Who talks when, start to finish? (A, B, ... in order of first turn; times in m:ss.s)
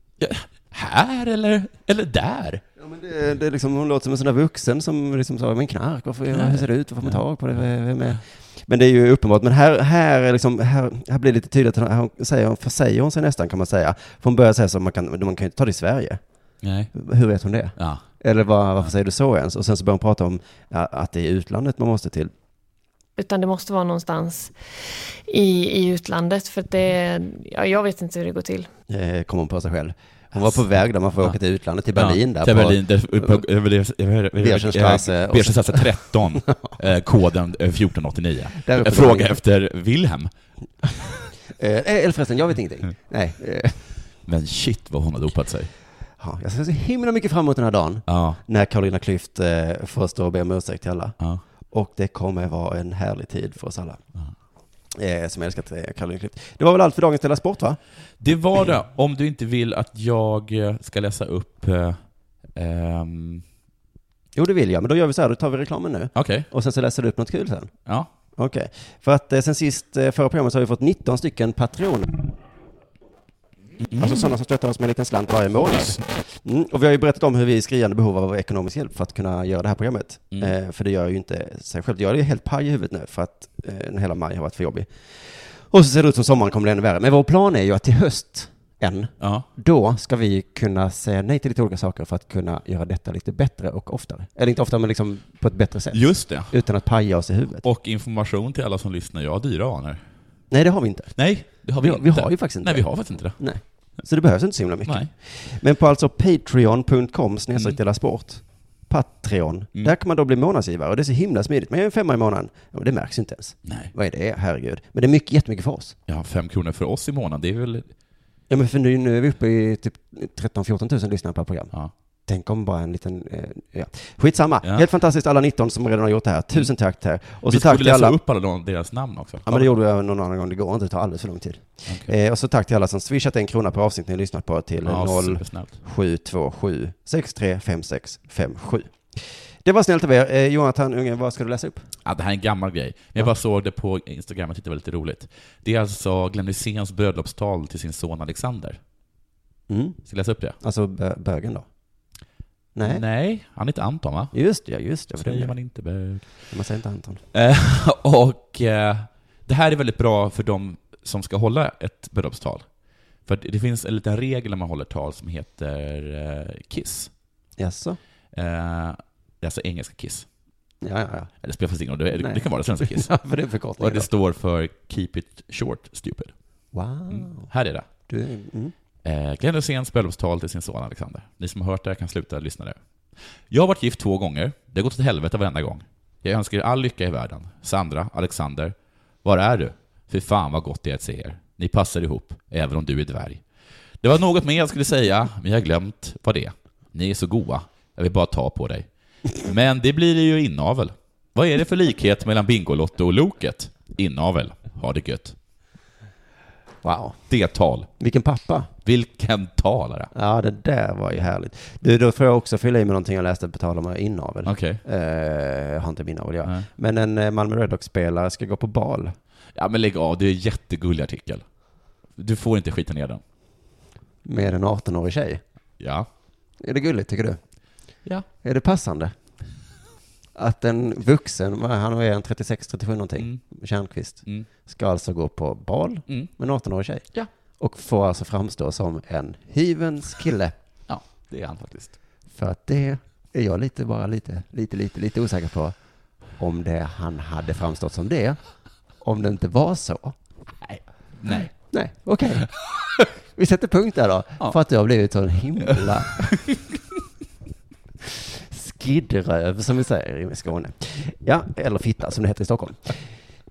0:00.2-0:02.6 A
0:02.8-0:16.2 B
0:06.3-0:07.2 A
0:16.6-0:16.9 A
0:16.9-0:22.3 B
0:17.8-0:18.0 A
0:23.2-0:28.7 C
0:28.9-0:33.4 B
0:31.9-0:40.3 A
0:34.4-0:36.8 B
0:38.6-0:39.4 B
0:41.4-0:44.1 B
0:44.2-0:45.7 A
0:46.2-0:51.2 B
0:48.1-0:48.4 A
0:51.7-0:54.0 B
0:54.9-0:57.8 B
0:58.2-1:03.4 A
1:04.4-1:07.8 B
1:06.2-1:06.5 A
1:08.3-1:12.3 B
1:13.8-1:14.3 A
1:13.9-1:37.7 B
1:29.2-1:29.5 A
1:35.9-1:36.6 A
1:37.6-1:40.0 A
1:40.5-1:56.0 B
1:41.2-1:43.4 A
1:44.9-1:45.1 A
1:53.6-1:53.9 A
1:56.1-1:57.9 A
1:58.5-2:01.7 B
2:02.3-2:08.2 B
2:07.4-2:09.7 A
2:09.5-2:21.9 B
2:11.9-2:12.1 A
2:14.8-2:15.7 A
2:22.0-2:28.8 A
2:29.7-2:30.0 B
2:30.1-2:30.6 A
2:30.6-2:31.7 B
2:32.8-2:33.0 B
2:32.8-2:34.4 A
2:34.3-2:35.6 B
2:35.2-2:36.5 A
2:36.2-2:37.2 B
2:37.3-2:42.7 A
2:43.2-2:47.1 A
2:47.6-2:48.0 B
2:48.3-2:50.3 A
2:50.8-2:51.3 B
2:51.4-2:53.1 A
2:52.2-2:54.1 B
2:53.8-2:56.3 A
2:56.7-2:57.5 B
2:57.1-2:57.9 A
2:58.1-2:58.7 B
2:59.0-3:02.8 A
3:03.5-3:13.4 A
3:14.0-3:25.4 A
3:26.8-3:27.2 B
3:27.3-3:27.9 A
3:28.0-3:28.7 B
3:28.8-3:30.1 A
3:30.1-3:39.2 B
3:34.5-3:34.8 A
3:39.6-3:41.4 A
3:42.2-3:43.2 A
3:44.2-3:45.4 B
3:45.8-3:46.1 A
3:46.6-3:47.6 B
3:48.4-3:49.2 B
3:50.4-4:00.5 B
3:53.2-3:53.4 A
4:00.9-4:02.0 A
4:02.3-4:05.8 B
4:06.3-4:10.2 B
4:10.6-4:11.5 A
4:11.3-4:12.6 B
4:13.3-4:16.4 B
4:18.2-4:23.1 B